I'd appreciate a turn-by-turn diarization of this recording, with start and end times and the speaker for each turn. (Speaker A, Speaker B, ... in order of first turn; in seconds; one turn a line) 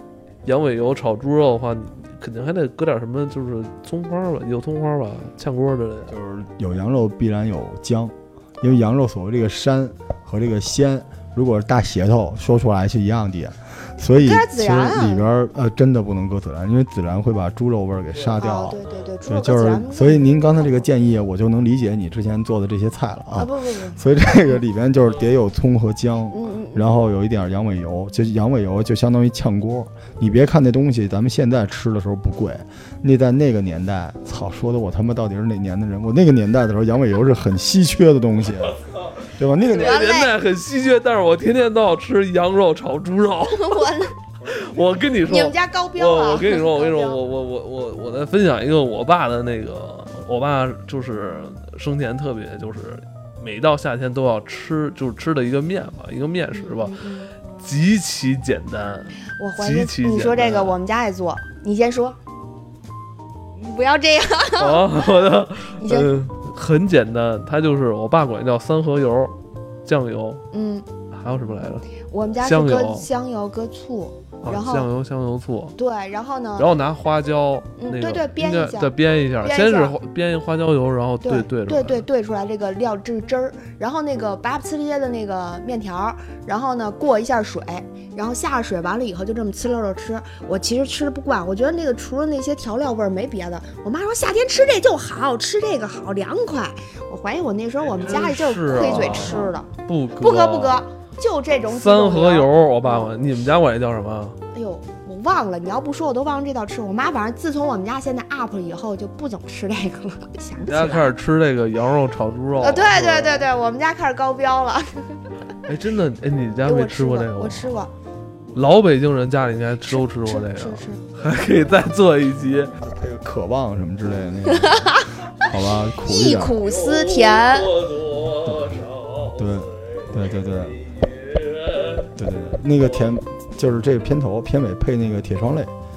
Speaker A: 0.5-6.2
Speaker B: 6.1-38.8
Speaker C: 14.2-15.3
Speaker C: 18.4-20.7
Speaker C: 23.4-24.0
Speaker C: 26.3-26.9
Speaker B: 39.3-40.0
Speaker C: 39.7-40.4
Speaker A: 39.7-43.9
Speaker C: 43.4-44.2
Speaker A: 44.4-57.0
Speaker C: 45.3-47.2
Speaker C: 56.5-57.3
Speaker A: 57.5-60.8
Speaker C: 59.4-62.2
Speaker C: 63.6-65.2
Speaker A: 64.6-70.5
Speaker C: 65.8-66.1
Speaker C: 70.5-70.9
Speaker A: 71.1-71.8
Speaker C: 71.9-74.9
Speaker A: 72.4-73.1
Speaker A: 74.4-75.8
Speaker C: 75.8-76.8
Speaker A: 76.6-82.0
Speaker C: 77.8-80.0
Speaker C: 81.2-103.1
Speaker A: 97.9-100.8
Speaker A: 101.7-104.4
Speaker C: 104.5-111.1
Speaker A: 110.6-113.4
Speaker C: 112.6-115.3
Speaker A: 115.7-117.7
Speaker C: 116.6-117.9
Speaker A: 118.5-122.7
Speaker C: 119.9-121.0
Speaker B: 122.8-126.6
Speaker C: 124.5-125.1
Speaker C: 126.0-127.8
Speaker A: 126.6-130.1
Speaker B: 129.3-130.8
Speaker A: 130.8-132.1
Speaker B: 132.2-135.7